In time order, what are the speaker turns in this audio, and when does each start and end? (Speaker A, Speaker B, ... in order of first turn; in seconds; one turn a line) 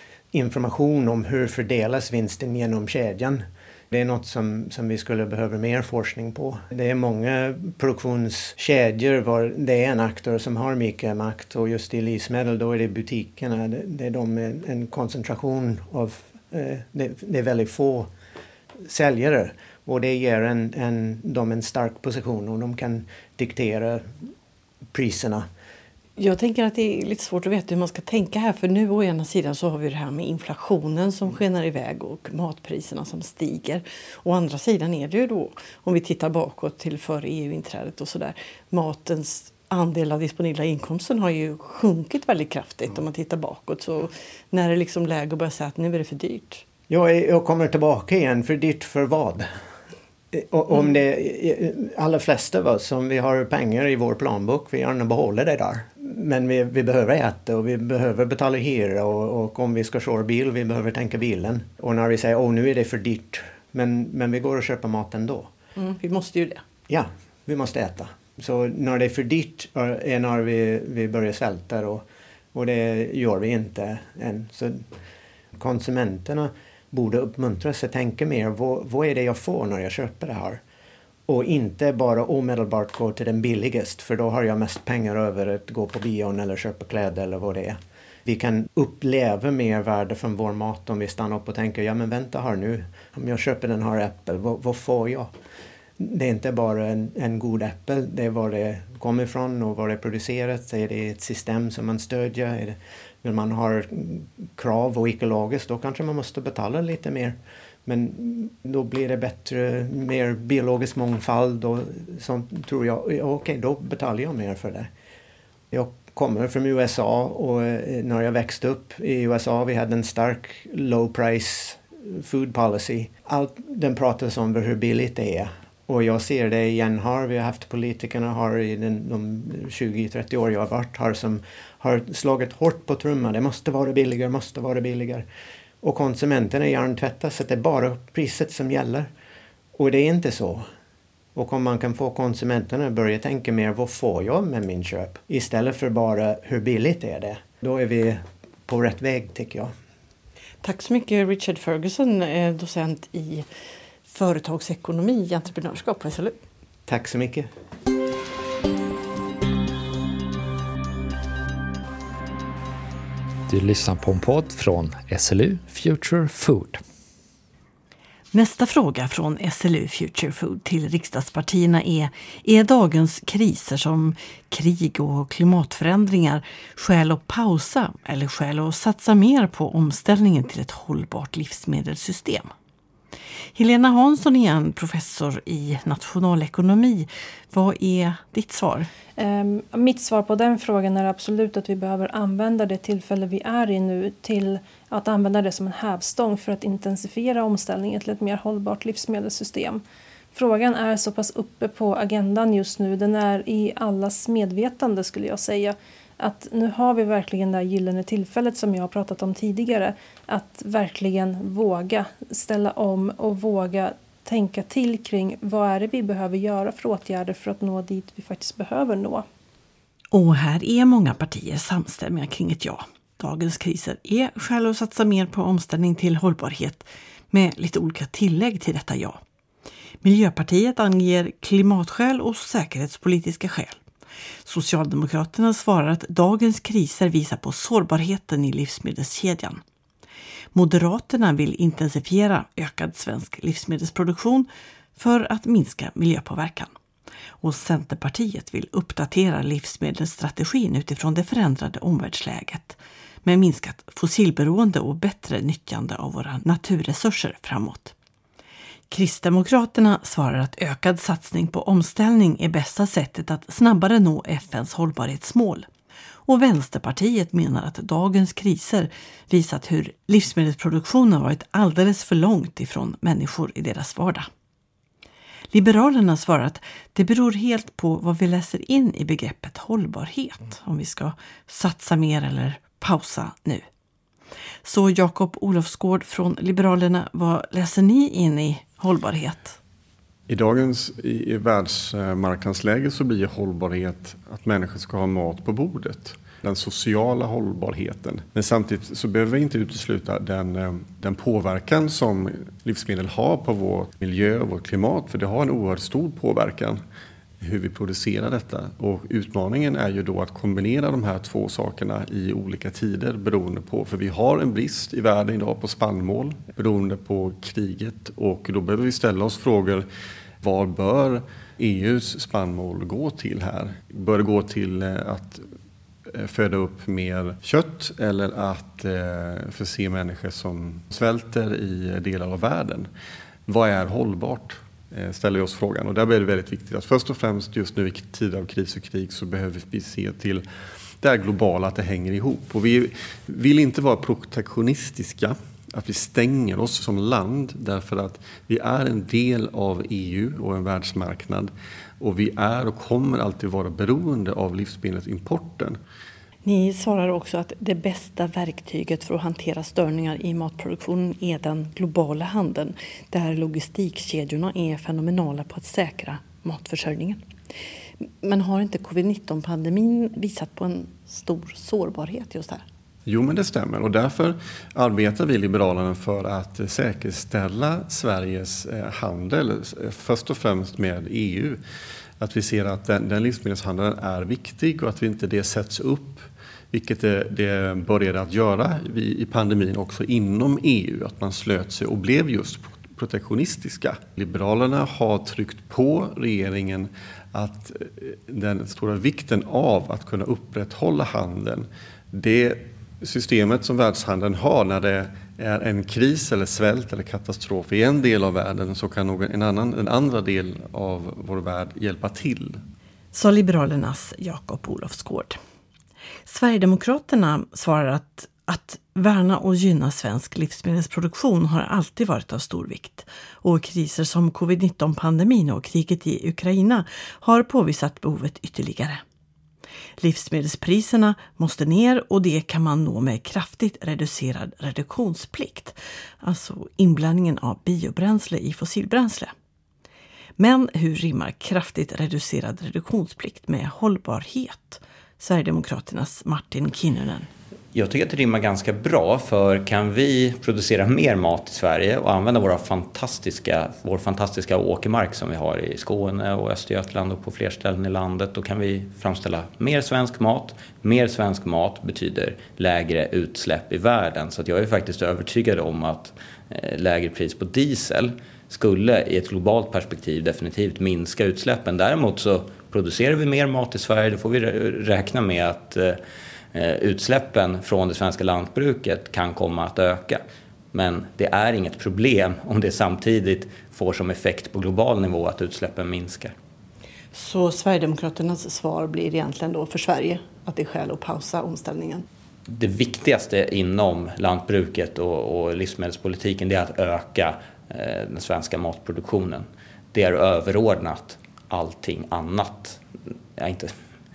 Speaker A: 0.3-18.1
Speaker A: 18.8-24.1
Speaker A: 24.9-25.5
Speaker B: 26.2-46.6
Speaker A: 46.9-49.5
Speaker A: 50.3-65.5
Speaker B: 65.8-66.6
Speaker A: 66.9-74.9
Speaker A: 75.5-80.6
Speaker A: 81.3-95.3
Speaker A: 96.0-114.9
Speaker A: 115.7-135.2
Speaker A: 135.8-139.1
Speaker A: 139.8-140.7
Speaker A: 141.3-149.7
Speaker B: 150.6-153.5
Speaker B: 154.1-156.4
Speaker A: 156.9-157.5
Speaker C: 163.5-166.8
Speaker B: 168.3-182.5
Speaker B: 183.5-188.9
Speaker D: 189.2-199.8
Speaker D: 200.3-219.2
Speaker B: 220.1-229.2
Speaker B: 230.0-233.8
Speaker B: 234.4-239.6
Speaker B: 240.5-246.7
Speaker B: 247.4-257.9
Speaker B: 258.9-265.7
Speaker B: 266.2-274.3
Speaker B: 275.5-283.6
Speaker B: 284.6-289.6
Speaker E: 290.3-306.8
Speaker E: 307.4-319.9
Speaker E: 320.4-325.4
Speaker E: 326.1-332.9
Speaker E: 333.4-340.4
Speaker E: 341.0-355.8
Speaker B: 356.4-367.2
Speaker B: 368.0-372.6
Speaker E: 373.1-381.6
Speaker E: 382.2-412.6
Speaker B: 413.1-415.4
Speaker B: 416.2-429.0
Speaker B: 430.0-439.3
Speaker B: 440.4-447.3
Speaker F: 447.7-476.0
Speaker F: 476.5-480.2
Speaker F: 480.7-486.3
Speaker B: 487.1-492.0
Speaker F: 492.5-502.8
Speaker F: 503.4-503.7